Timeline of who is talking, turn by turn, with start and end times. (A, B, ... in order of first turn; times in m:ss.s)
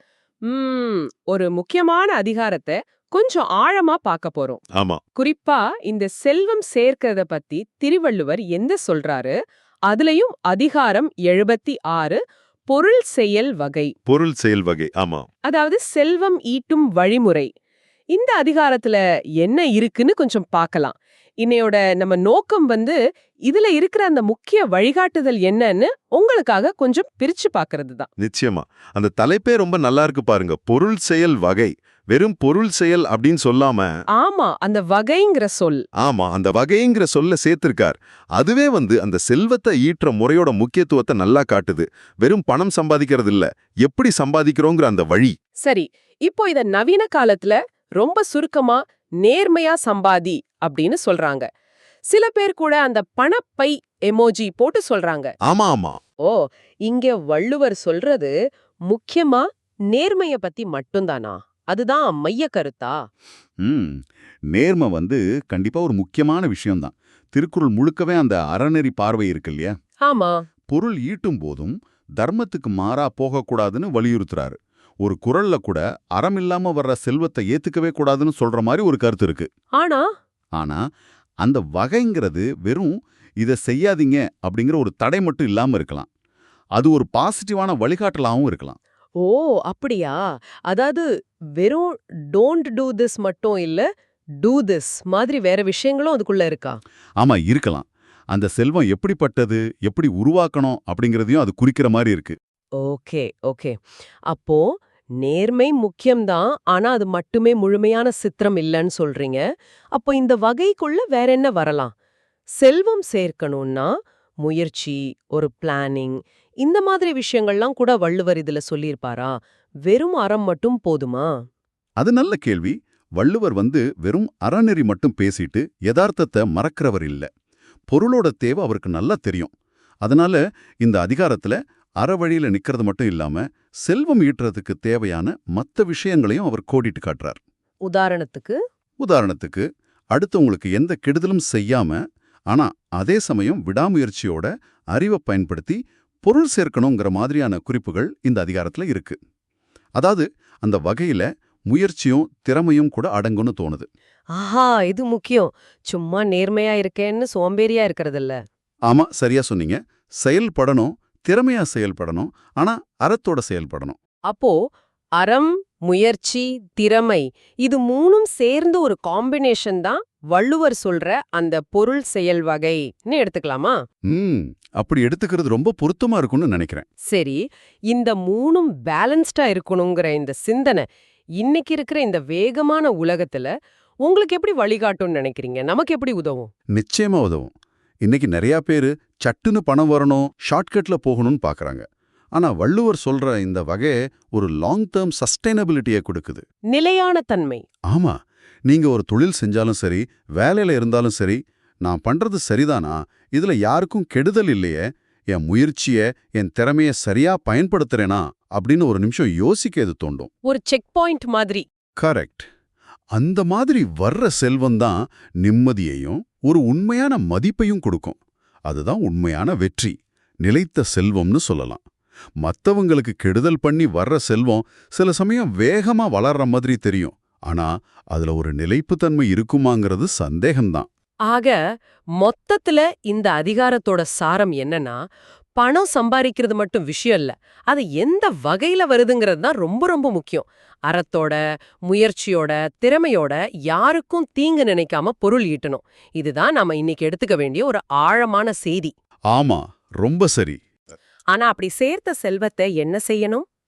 0:00.5-0:04.6 A
0:05.2-0:09.4 A
0:09.9-0:13.9 A
0:14.1-0:15.3 B
0:15.5-0:17.5 A
0:18.1-0:28.1 A
0:28.2-0:33.9 B
0:34.2-0:35.8 A
0:36.0-0:45.4 B
0:45.6-0:51.5 A
0:52.1-0:55.3 A
0:55.4-0:56.0 B
0:56.2-0:58.3 A
0:58.9-1:03.0 A
1:03.6-1:09.7 C
1:10.0-1:10.4 A
1:10.7-1:19.5 C
1:19.8-1:20.1 A
1:20.6-1:20.8 C
1:21.4-1:26.1 C
1:26.8-1:28.8 C
1:29.2-1:31.0 A
1:31.6-1:33.9 A
1:34.4-1:36.8 A
1:37.2-1:42.4 C
1:42.8-1:43.8 A
1:44.3-1:44.6 A
1:45.2-1:49.4 A
1:50.0-1:51.9 A
1:52.6-1:53.9 A
1:54.4-1:59.3 A
1:59.9-2:01.3 A
2:02.0-2:07.3 C
2:07.9-2:09.5 C
2:10.0-2:17.4 C
2:17.9-2:18.6 A
2:19.0-2:22.0 C
2:22.5-2:29.2 C
2:30.0-2:33.9 C
2:34.4-2:38.4 A
2:38.9-2:44.0 C
2:44.3-2:44.6 A
2:45.2-2:53.8 A
2:54.1-2:56.9 C
2:57.1-2:57.4 A
2:57.9-3:00.8 A
3:01.4-3:03.5 A
3:04.0-3:06.5 A
3:06.8-3:07.5 C
3:08.0-3:11.8 C
3:12.3-3:16.4 C
3:16.7-3:17.6 A
3:17.9-3:18.2 C
3:18.7-3:30.3 C
3:30.5-3:31.6 A
3:32.0-3:32.5 C
3:33.2-3:41.8 C
3:42.4-3:50.9 C
3:51.3-3:51.6 A
3:52.2-3:55.0 A
3:55.6-4:08.9 A
4:09.3-4:10.6 C
4:11.3-4:13.4 A